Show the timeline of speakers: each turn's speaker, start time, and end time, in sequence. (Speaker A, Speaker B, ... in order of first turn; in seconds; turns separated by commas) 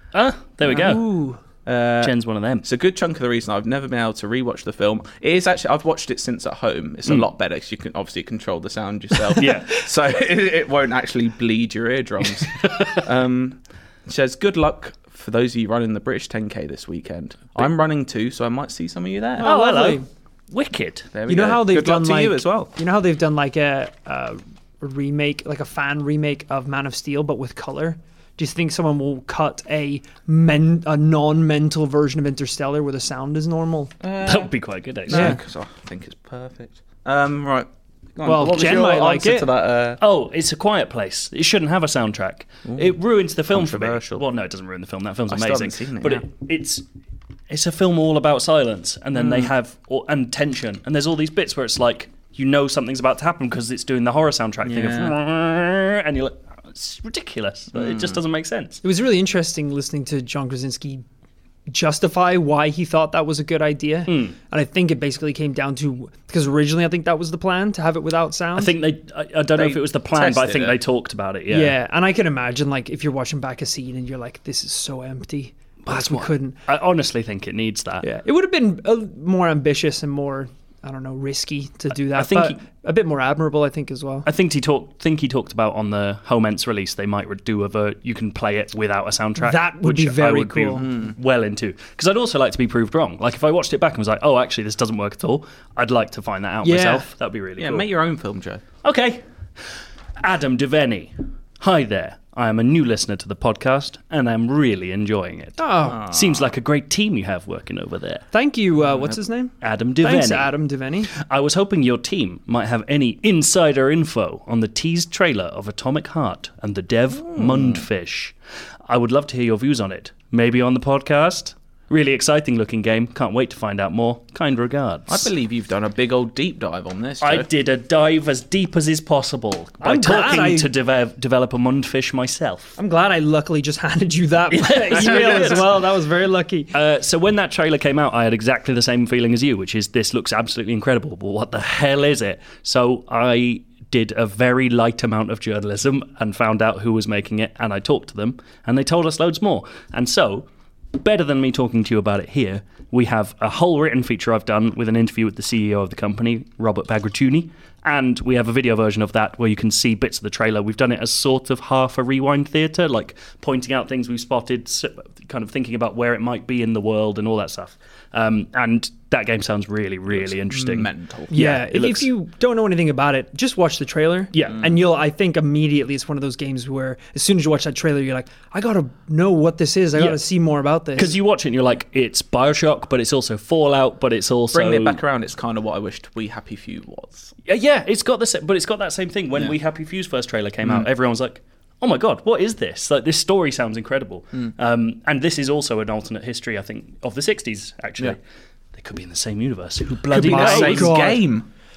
Speaker A: 0.1-1.1, Speaker B: 0.7-1.0, Speaker C: 0.7-1.4, Speaker B: 1.6-19.5, Speaker A: 2.0-2.7, Speaker A: 9.4-9.8, Speaker A: 12.6-13.0, Speaker C: 19.4-20.1, Speaker A: 19.4-21.1, Speaker B: 21.1-22.7, Speaker C: 21.3-33.9, Speaker B: 34.0-34.5, Speaker A: 34.2-35.4, Speaker B: 35.1-40.0, Speaker C: 35.1-35.4, Speaker C: 38.2-39.5, Speaker A: 40.0-46.8, Speaker B: 42.6-43.0, Speaker B: 43.5-44.2, Speaker B: 45.3-46.2, Speaker A: 47.5-58.8, Speaker B: 49.1-49.5, Speaker B: 54.6-55.1, Speaker B: 57.7-58.2, Speaker C: 58.8-61.0, Speaker C: 61.7-68.7, Speaker A: 64.1-64.4, Speaker A: 68.5-71.8, Speaker B: 69.5-70.8, Speaker C: 71.5-76.6, Speaker A: 75.8-78.1, Speaker C: 78.0-84.3, Speaker A: 81.9-82.6, Speaker A: 84.2-97.9, Speaker C: 89.4-90.9, Speaker B: 90.8-91.2, Speaker C: 96.6-97.1, Speaker B: 97.6-98.6, Speaker A: 98.8-99.2, Speaker A: 100.2-108.3, Speaker C: 105.6-106.1, Speaker B: 105.9-106.5, Speaker C: 108.3-111.1, Speaker A: 109.6-110.5, Speaker A: 111.1-118.3, Speaker B: 117.3-117.9, Speaker A: 118.9-125.3, Speaker B: 125.1-127.5, Speaker A: 127.2-132.8, Speaker C: 129.8-130.7, Speaker C: 132.8-136.7, Speaker A: 134.5-135.9, Speaker B: 135.0-135.6, Speaker A: 136.7-172.1, Speaker B: 170.1-171.4, Speaker C: 171.3-181.2, Speaker A: 174.3-174.6, Speaker B: 174.5-174.8, Speaker A: 181.0-185.0, Speaker B: 184.5-187.3, Speaker A: 187.5-198.2, Speaker B: 190.6-190.9, Speaker A: 198.8-201.0, Speaker B: 200.1-201.5, Speaker C: 200.1-201.2